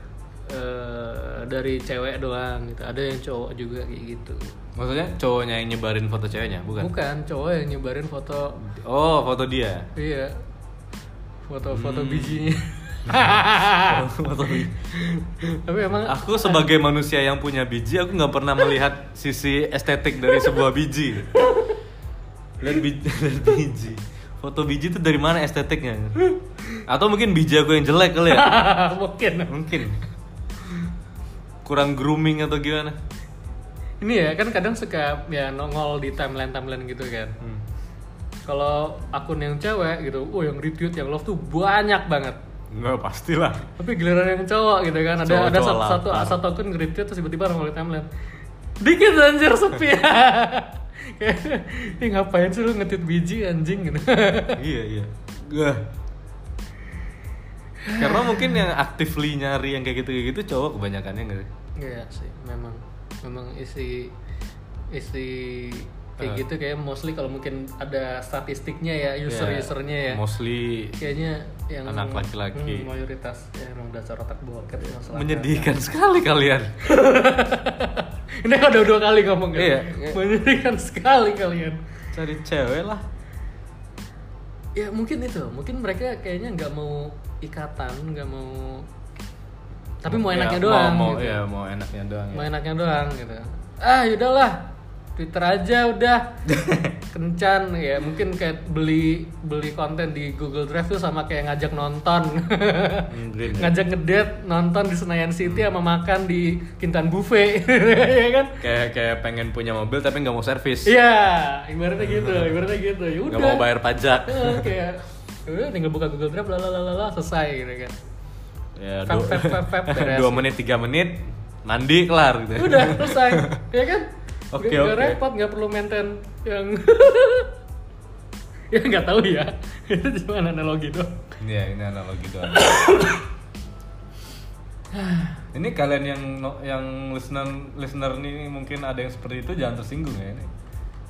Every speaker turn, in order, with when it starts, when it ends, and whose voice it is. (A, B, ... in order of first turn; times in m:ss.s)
0:00.5-0:04.5 A
0:04.8-0:06.9 B
0:06.8-0:08.6 A
0:08.6-0:09.9 B
0:09.9-0:10.4 A
0:11.5-0:14.0 A
0:11.6-0:12.5 B
0:13.1-0:14.9 B
0:14.6-0:16.6 A
0:16.0-0:21.3 B
0:21.3-0:21.8 A
0:22.6-0:26.2 B
0:26.8-0:28.6 B
0:28.3-0:29.6 A
0:29.5-0:30.0 B
0:31.6-0:33.0 B
0:34.0-0:37.4 A
0:38.5-0:42.4 A
0:42.7-0:43.7 B
0:43.8-0:48.1 A
0:45.2-0:46.4 B
0:48.8-0:54.6 A
0:54.6-0:55.9 B
0:57.8-0:58.6 A
0:58.0-1:01.5 B
1:01.8-1:04.1 A
1:04.9-1:10.2 A
1:09.3-1:11.0 B
1:11.0-1:15.7 A
1:11.8-1:12.9 B
1:15.0-1:16.8 B
1:16.8-1:21.8 A
1:19.5-1:20.2 B
1:22.1-1:23.0 B
1:24.8-1:28.9 A
1:30.0-1:31.4 A
1:30.0-1:32.5 B
1:32.3-1:36.4 A
1:36.5-1:37.0 B
1:37.1-1:48.5 A
1:43.1-1:43.7 B
1:48.6-1:50.9 B
1:50.8-1:57.9 A
1:52.1-1:52.4 B
1:53.3-1:54.7 B
1:58.8-2:03.6 B
1:59.0-2:00.5 A
2:02.5-2:07.5 A
2:04.5-2:05.2 B
2:08.7-2:11.3 A
2:11.4-2:13.0 B
2:12.5-2:13.2 A
2:14.9-2:15.4 A
2:15.5-2:20.5 B